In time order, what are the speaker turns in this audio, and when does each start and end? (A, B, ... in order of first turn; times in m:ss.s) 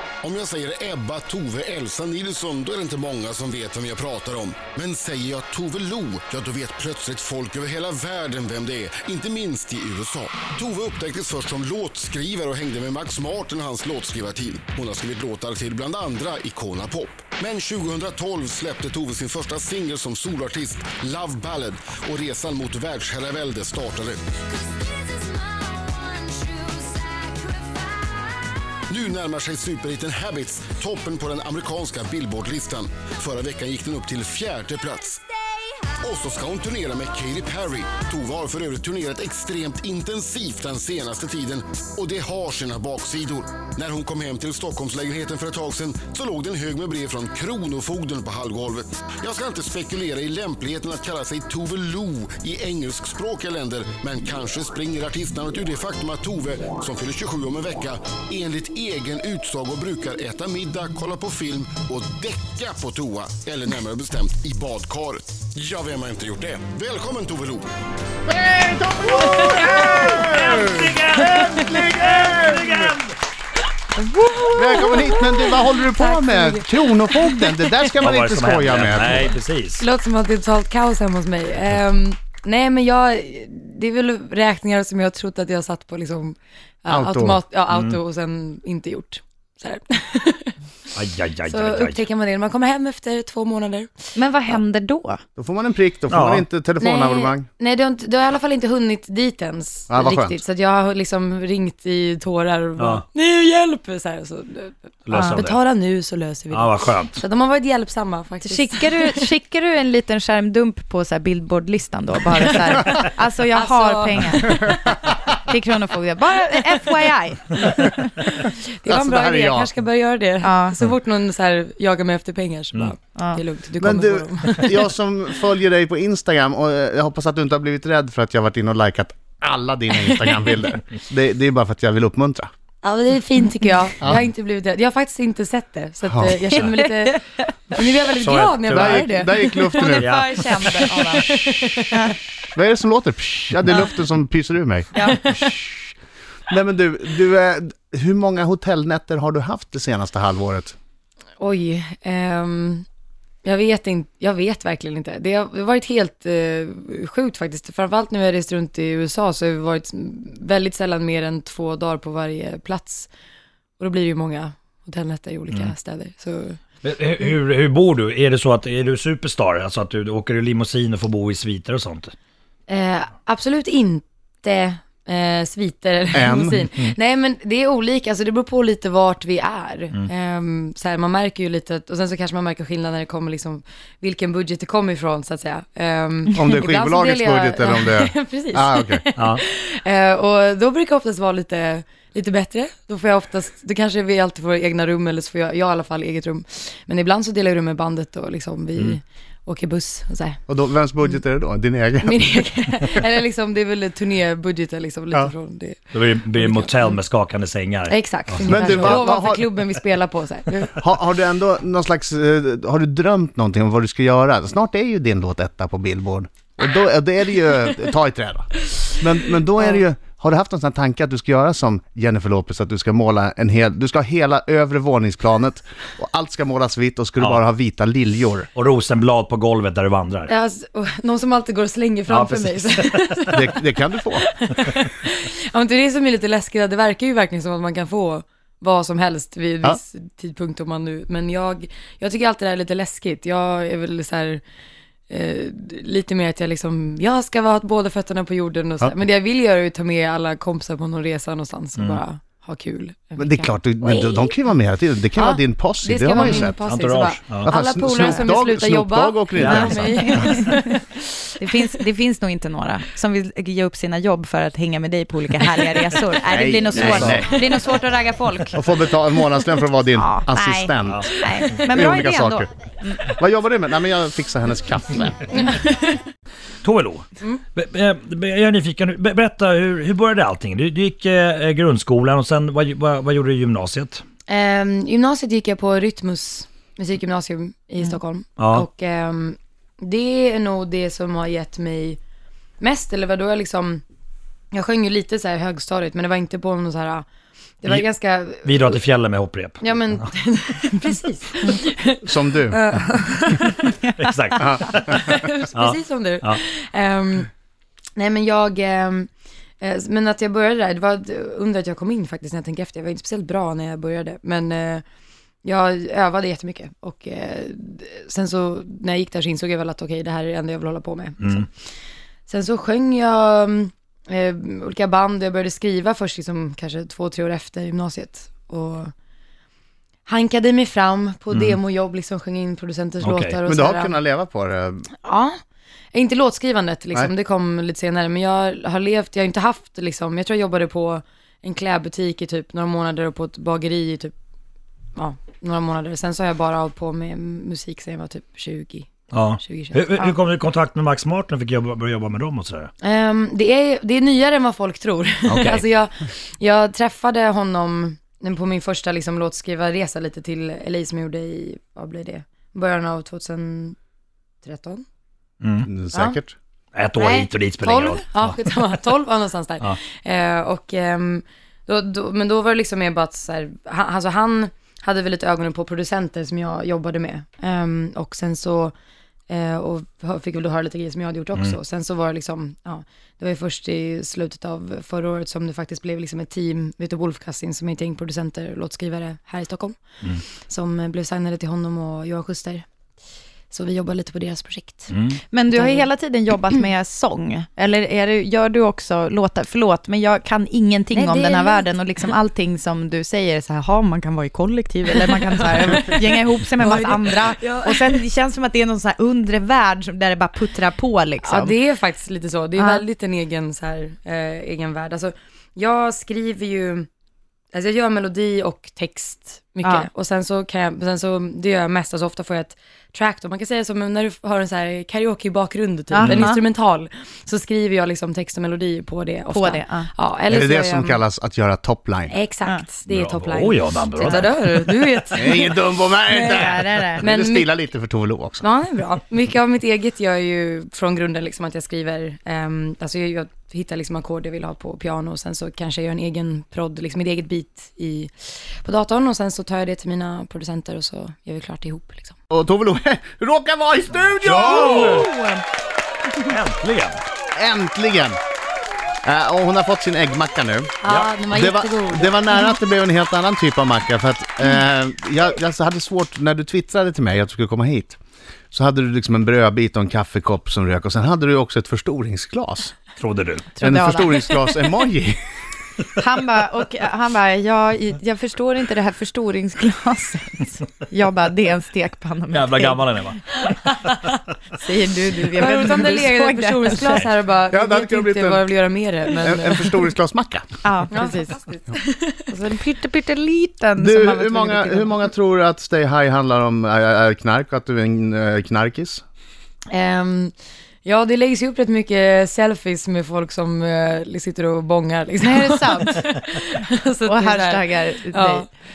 0:00.2-0:25.6 A
0:26.1-0:27.6 A
0:28.9-0:35.3 A
0:36.0-1:07.7 A
1:08.3-1:12.9 B
1:09.2-1:10.0 C
1:09.8-1:13.1 D
1:13.9-1:17.9 C
1:14.5-1:19.3 B
1:18.0-1:19.8 D
1:19.8-1:30.6 C
1:26.9-1:27.4 B
1:27.7-1:28.0 D
1:30.9-1:32.0 D
1:31.4-1:33.9 C
1:34.2-1:35.2 E
1:35.4-1:37.5 B
1:36.1-1:36.5 D
1:36.8-1:49.3 C
1:39.9-1:40.4 B
1:42.8-1:43.0 D
1:45.0-1:45.6 D
1:45.1-1:45.4 E
1:46.5-1:47.2 D
1:48.4-1:58.0 E
1:53.5-1:54.8 C
1:58.4-2:04.8 C
1:58.4-1:59.7 B
2:00.4-2:00.8 E
2:03.1-2:03.4 E
2:03.8-2:12.5 B
2:12.8-2:20.0 C
2:16.1-2:16.4 B
2:18.2-2:19.2 D
2:18.7-2:20.2 B
2:19.8-2:22.1 E
2:19.9-2:20.8 D
2:20.8-2:22.0 C
2:22.5-2:25.8 B
2:24.9-2:25.2 E
2:25.0-2:25.7 C
2:26.5-2:30.8 B
2:31.4-2:32.8 C
2:33.4-2:43.1 C
2:43.8-2:46.6 C
2:46.8-2:52.1 D
2:52.7-3:20.4 C
2:56.1-2:56.6 B
3:06.3-3:09.0 B
3:09.2-3:09.4 D
3:20.5-3:22.3 B
3:22.0-3:27.0 C
3:25.9-3:29.0 D
3:27.9-3:30.8 C
3:28.4-3:29.5 B
3:30.8-3:48.5 B
3:48.5-3:50.3 D
3:50.3-3:53.6 C
3:52.1-3:53.4 D
3:53.3-3:54.3 B
3:54.2-4:04.4 C
4:05.1-4:14.3 C
4:11.8-4:12.0 D
4:13.2-4:16.6 B
4:15.2-4:21.3 C
4:16.2-4:17.5 D
4:17.4-4:20.3 B
4:19.3-4:20.1 D
4:19.9-4:20.5 E
4:21.4-4:28.6 E
4:26.3-4:27.4 B
4:28.5-4:31.1 B
4:29.9-4:33.0 E
4:30.8-4:31.6 D
4:31.7-4:32.5 B
4:33.0-4:35.3 B
4:35.5-4:35.9 C
4:36.6-4:37.0 D
4:37.6-4:44.0 D
4:44.3-4:52.0 C
4:48.4-4:48.7 D
4:52.6-4:53.8 C
4:54.5-4:57.0 C
4:57.6-4:58.8 C
4:58.4-5:00.0 D
4:59.6-5:03.8 C
5:02.0-5:02.6 B
5:04.0-5:06.4 D
5:04.4-5:04.9 B
5:04.9-5:07.3 C
5:08.0-5:09.1 C
5:09.6-5:14.8 C
5:15.4-5:21.4 C
5:21.2-5:21.5 D
5:22.3-5:28.9 C
5:30.1-5:34.0 C
5:31.3-5:31.6 D
5:33.0-5:33.4 D
5:33.4-5:34.9 B
5:35.0-5:35.4 C
5:35.9-5:44.1 C
5:45.0-5:48.9 C
5:49.1-5:52.7 D
5:49.4-5:50.1 C
5:52.8-6:03.8 C
5:55.2-5:55.6 D
6:04.4-6:04.8 C
6:05.4-6:05.7 D
6:05.6-6:06.3 B
6:05.9-6:06.2 C
6:06.7-6:08.4 D
6:06.9-6:18.7 C
6:19.3-6:29.8 C
6:30.4-6:32.6 C
6:33.5-6:34.9 C
6:34.9-6:35.2 D
6:35.3-6:51.6 E
6:35.5-6:35.8 C
6:40.9-6:41.7 C
6:45.5-6:48.0 C
6:51.2-6:56.9 C
6:52.6-6:52.8 E
6:57.5-7:11.0 C
7:05.9-7:06.4 E
7:06.0-7:06.3 D
7:09.3-7:09.9 E
7:10.3-7:12.1 B
7:12.1-7:16.4 C
7:12.9-7:14.8 D
7:15.1-7:18.4 B
7:16.1-7:17.0 E
7:17.0-7:17.5 C
7:18.4-7:32.1 C
7:32.3-7:35.1 B
7:34.2-7:35.1 D
7:36.2-7:37.0 D
7:37.3-7:38.2 B
7:39.0-7:40.8 B
7:40.8-7:42.4 C
7:40.9-7:41.1 D
7:41.3-7:48.0 B
7:48.5-7:52.8 B
7:53.0-7:53.5 D
7:53.5-7:54.4 E
7:53.6-7:55.2 B
7:56.0-8:02.8 E
8:02.3-8:04.0 D
8:04.6-8:07.0 E
8:05.3-8:09.9 C
8:07.5-8:08.4 B
8:09.2-8:10.5 B
8:10.6-8:11.3 E
8:10.9-8:12.5 C
8:12.3-8:15.0 E
8:13.8-8:19.0 B
8:19.7-8:20.3 C
8:20.8-8:28.5 C
8:25.2-8:26.0 E
8:27.0-8:28.4 E